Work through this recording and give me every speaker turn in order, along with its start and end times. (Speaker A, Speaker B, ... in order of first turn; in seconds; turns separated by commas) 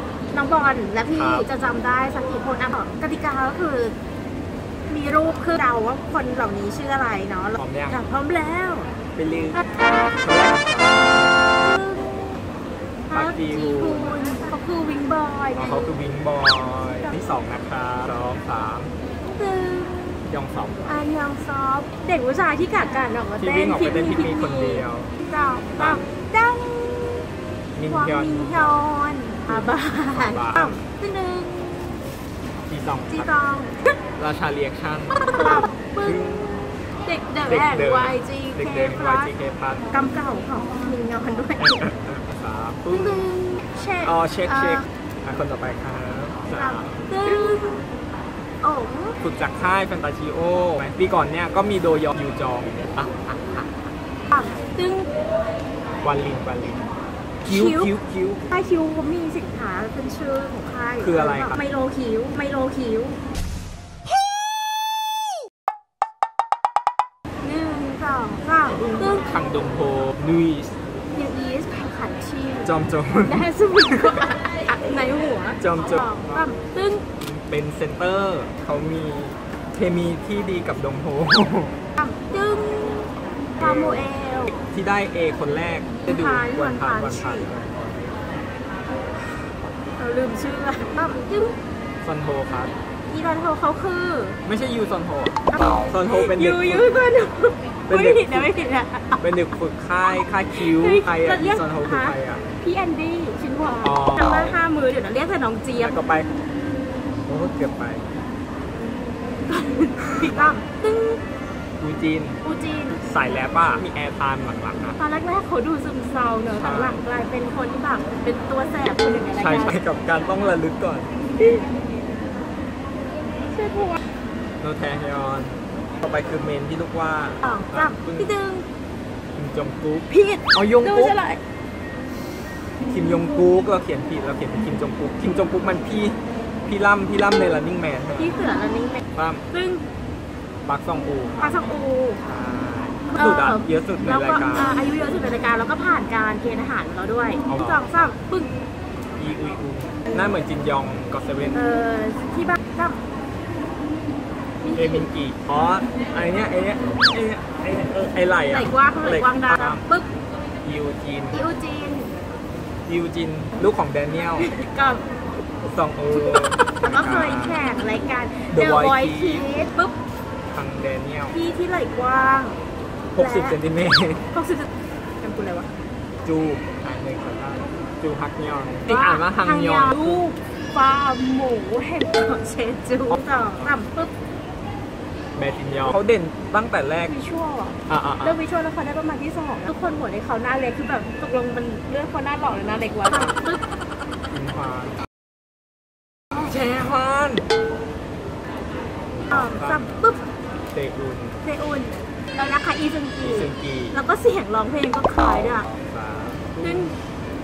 Speaker A: 0.3-4.0, Speaker B: 1.1-1.5, Speaker A: 4.9-8.9, Speaker B: 7.6-8.0, Speaker B: 9.2-9.6, Speaker B: 10.2-11.4, Speaker A: 11.6-12.4, Speaker A: 13.1-15.9, Speaker B: 13.1-14.2, Speaker B: 15.6-18.9, Speaker A: 19.3-20.2, Speaker B: 20.2-21.0, Speaker A: 20.9-27.3, Speaker B: 23.4-25.1, Speaker B: 25.8-26.0, Speaker B: 27.8-28.9, Speaker A: 27.9-31.9, Speaker B: 29.5-30.9, Speaker B: 32.7-33.3, Speaker A: 33.1-33.9, Speaker B: 34.2-36.7, Speaker A: 35.1-39.3, Speaker B: 37.5-39.9, Speaker A: 39.9-41.9, Speaker B: 41.6-43.3, Speaker A: 42.9-44.9, Speaker B: 44.0-47.1, Speaker A: 46.5-47.8, Speaker A: 48.6-49.2, Speaker B: 49.2-53.8, Speaker A: 54.3-55.1, Speaker B: 56.0-56.9, Speaker B: 57.5-58.5, Speaker A: 57.5-57.9, Speaker A: 58.5-63.2, Speaker B: 61.0-61.6, Speaker A: 67.4-69.2, Speaker B: 68.8-70.8, Speaker A: 71.1-72.7, Speaker B: 72.6-74.1, Speaker A: 73.2-77.0, Speaker B: 75.6-76.4, Speaker B: 77.2-81.7, Speaker A: 82.0-84.6, Speaker B: 83.6-88.2, Speaker A: 86.1-87.5, Speaker A: 90.0-91.6, Speaker B: 92.0-92.7, Speaker A: 93.1-94.4, Speaker B: 94.5-97.0, Speaker A: 95.5-99.2, Speaker B: 97.9-98.5, Speaker B: 99.2-102.4, Speaker A: 100.5-106.0, Speaker B: 103.8-104.6, Speaker B: 105.8-106.3, Speaker B: 107.3-108.1, Speaker A: 109.5-111.2, Speaker B: 110.2-110.6, Speaker B: 111.8-112.4, Speaker A: 112.4-113.0, Speaker B: 113.0-115.0, Speaker A: 115.0-119.8, Speaker B: 116.5-117.0, Speaker B: 119.3-121.1, Speaker A: 121.4-121.7, Speaker A: 123.5-124.0, Speaker B: 124.6-128.3, Speaker A: 127.4-128.7, Speaker B: 129.3-131.2, Speaker A: 130.1-131.4, Speaker B: 132.9-138.4, Speaker A: 138.2-139.8, Speaker B: 139.2-139.4, Speaker B: 140.7-144.8, Speaker A: 141.4-142.2, Speaker A: 143.1-148.5, Speaker B: 147.5-148.1, Speaker B: 149.2-151.7, Speaker A: 151.5-153.0, Speaker A: 154.6-155.1, Speaker B: 154.7-159.8, Speaker A: 158.5-160.1, Speaker B: 160.6-161.4, Speaker A: 161.3-162.1, Speaker B: 162.9-164.5, Speaker A: 164.4-165.1, Speaker B: 165.6-167.6, Speaker A: 166.1-169.9, Speaker B: 168.5-169.5, Speaker B: 170.5-171.4, Speaker A: 171.3-172.6, Speaker A: 173.2-173.6, Speaker B: 173.2-174.3, Speaker A: 174.3-175.7, Speaker B: 176.2-180.2, Speaker A: 178.9-184.1, Speaker B: 183.1-183.7, Speaker B: 185.3-187.1, Speaker A: 187.0-193.6, Speaker B: 187.9-188.4, Speaker B: 194.3-195.0, Speaker B: 196.3-197.4, Speaker B: 199.1-200.0, Speaker A: 199.3-200.2, Speaker B: 200.7-201.4, Speaker A: 201.4-205.7, Speaker B: 203.2-204.0, Speaker B: 205.3-207.0, Speaker A: 206.6-206.9